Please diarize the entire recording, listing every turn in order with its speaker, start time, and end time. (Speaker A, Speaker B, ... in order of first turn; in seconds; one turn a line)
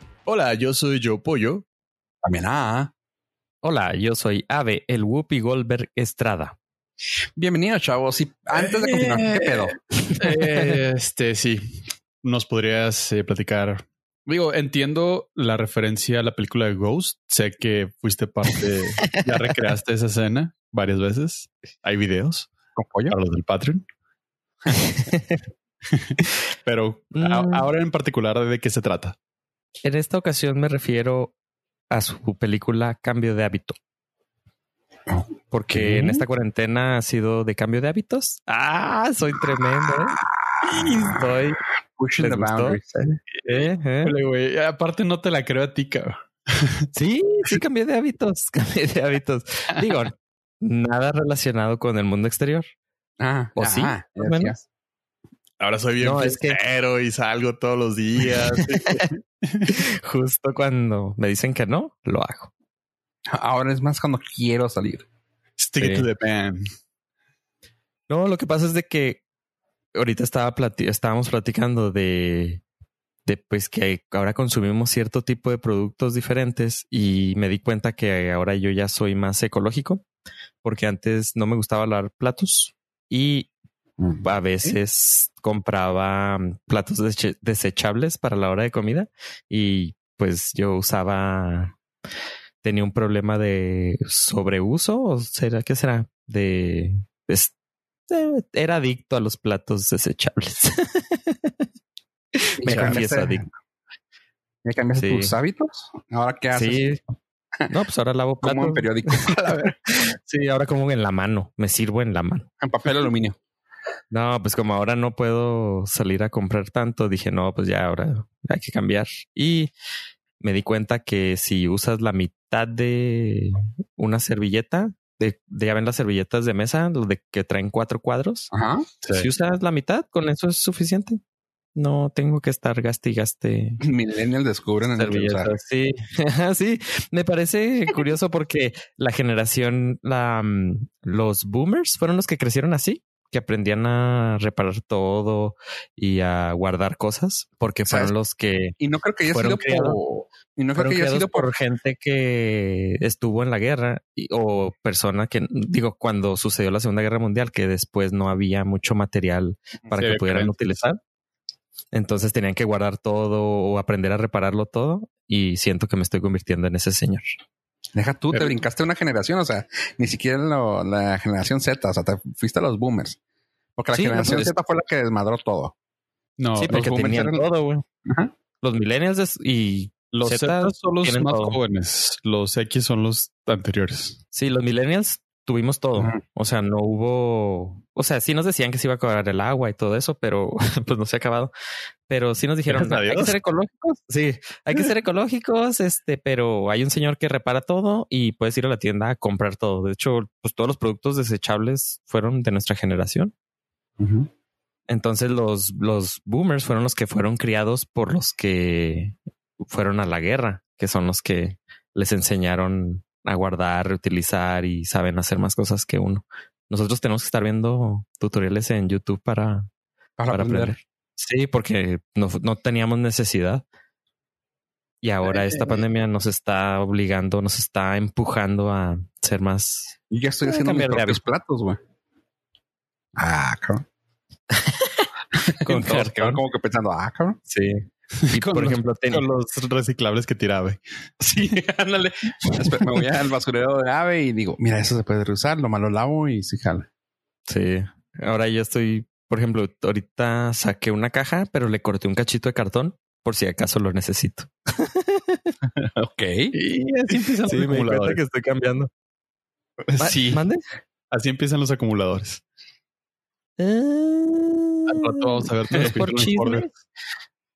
Speaker A: 0.3-1.6
Speaker B: 2.2-2.9
Speaker C: 3.6-6.6
Speaker B: 7.4-10.3
Speaker A: 8.6-9.5
Speaker A: 10.2-22.5
Speaker B: 22.8-23.1
Speaker A: 23.1-23.9
Speaker C: 24.7-25.4
Speaker A: 25.9-29.2
Speaker C: 27.1-27.7
Speaker C: 29.8-31.3
Speaker C: 31.9-33.8
Speaker B: 35.1-36.2
Speaker C: 35.5-41.6
Speaker B: 39.9-43.2
Speaker C: 42.2-42.8
Speaker C: 43.5-44.1
Speaker A: 44.0-46.9
Speaker C: 46.9-52.7
Speaker B: 53.2-54.6
Speaker C: 53.6-54.5
Speaker A: 55.6-59.7
Speaker C: 56.0-56.6
Speaker C: 58.8-59.1
Speaker C: 59.7-62.5
Speaker B: 63.3-65.0
Speaker A: 65.6-66.7
Speaker C: 65.8-66.1
Speaker C: 68.1-69.2
Speaker C: 70.0-72.6
Speaker C: 73.3-80.0
Speaker C: 80.6-83.5
Speaker B: 84.0-84.8
Speaker C: 84.2-91.8
Speaker C: 92.6-97.5
Speaker C: 98.1-101.5
Speaker C: 102.4-103.5
Speaker B: 102.6-103.5
Speaker B: 104.6-106.9
Speaker C: 105.0-105.3
Speaker C: 106.5-107.0
Speaker C: 107.7-112.5
Speaker B: 108.4-109.8
Speaker B: 112.6-113.4
Speaker C: 114.1-119.7
Speaker C: 120.4-128.5
Speaker B: 128.5-128.9
Speaker A: 129.0-129.3
Speaker C: 129.1-131.2
Speaker C: 131.8-133.8
Speaker B: 133.8-135.5
Speaker C: 134.9-148.8
Speaker B: 147.9-148.1
Speaker B: 148.8-151.5
Speaker C: 149.3-150.0
Speaker C: 150.8-161.0
Speaker A: 160.0-160.6
Speaker C: 161.9-167.4
Speaker B: 167.9-173.2
Speaker B: 173.8-175.8
Speaker C: 173.9-174.5
Speaker A: 176.4-176.9
Speaker C: 176.6-177.8
Speaker B: 176.7-177.4
Speaker B: 178.1-178.3
Speaker C: 178.6-181.6
Speaker A: 180.1-184.2
Speaker C: 184.3-191.5
Speaker C: 192.1-203.3
Speaker A: 192.7-193.4
Speaker B: 204.0-204.3
Speaker C: 204.9-209.2
Speaker C: 209.7-219.7
Speaker B: 220.2-220.8
Speaker C: 220.3-223.6
Speaker C: 225.0-231.2
Speaker B: 225.3-225.8
Speaker B: 230.1-231.8
Speaker B: 233.2-233.8
Speaker C: 234.5-235.1
Speaker B: 235.5-237.4
Speaker C: 235.6-236.4
Speaker C: 237.5-239.2
Speaker A: 238.2-240.8
Speaker B: 241.2-246.9
Speaker C: 247.5-255.5
Speaker B: 255.7-256.6
Speaker A: 256.5-258.2
Speaker C: 257.5-258.9
Speaker A: 259.8-260.3
Speaker B: 260.0-260.4
Speaker C: 260.0-260.6
Speaker A: 261.1-262.4
Speaker C: 263.6-266.7
Speaker A: 264.9-266.7